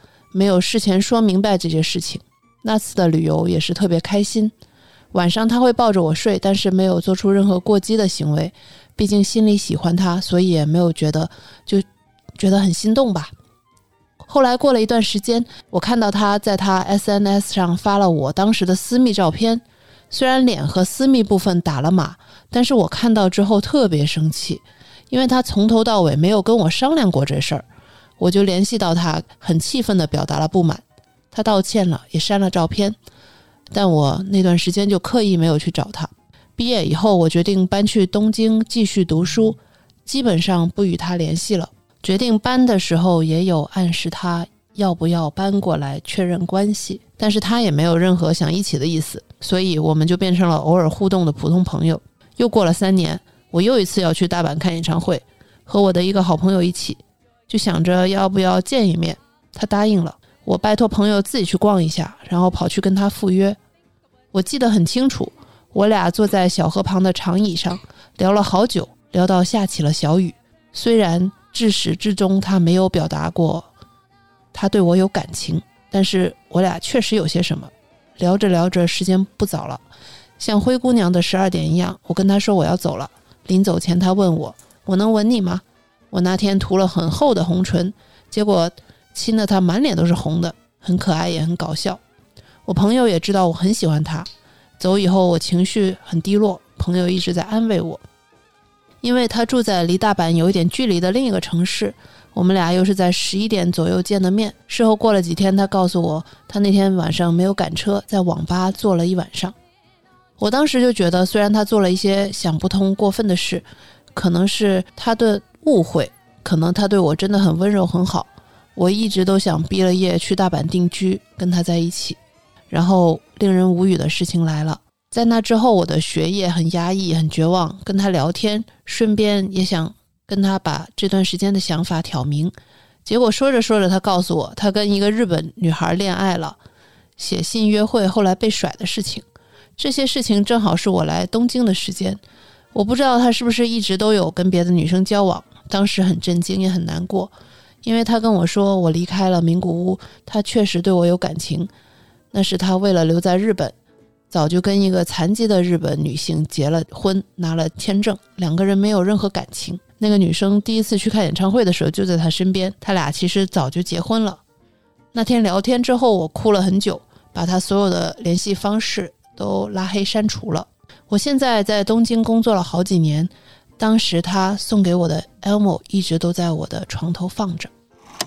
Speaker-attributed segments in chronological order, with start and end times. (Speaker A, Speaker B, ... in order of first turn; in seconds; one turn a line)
Speaker A: 0.3-4.5
Speaker A: 5.1-13.3
Speaker A: 14.2-27.7
Speaker A: 28.2-33.0
Speaker A: 33.7-63.6
Speaker A: 64.3-73.7
Speaker A: 74.5-79.8
Speaker A: 80.4-92.0
Speaker A: 92.7-98.0
Speaker A: 99.0-109.5
Speaker A: 110.4-122.2
Speaker A: 122.7-136.6
Speaker A: 137.2-139.2
Speaker A: 139.8-142.2
Speaker A: 142.7-151.7
Speaker A: 152.3-153.7
Speaker A: 154.3-164.4
Speaker A: 165.1-177.7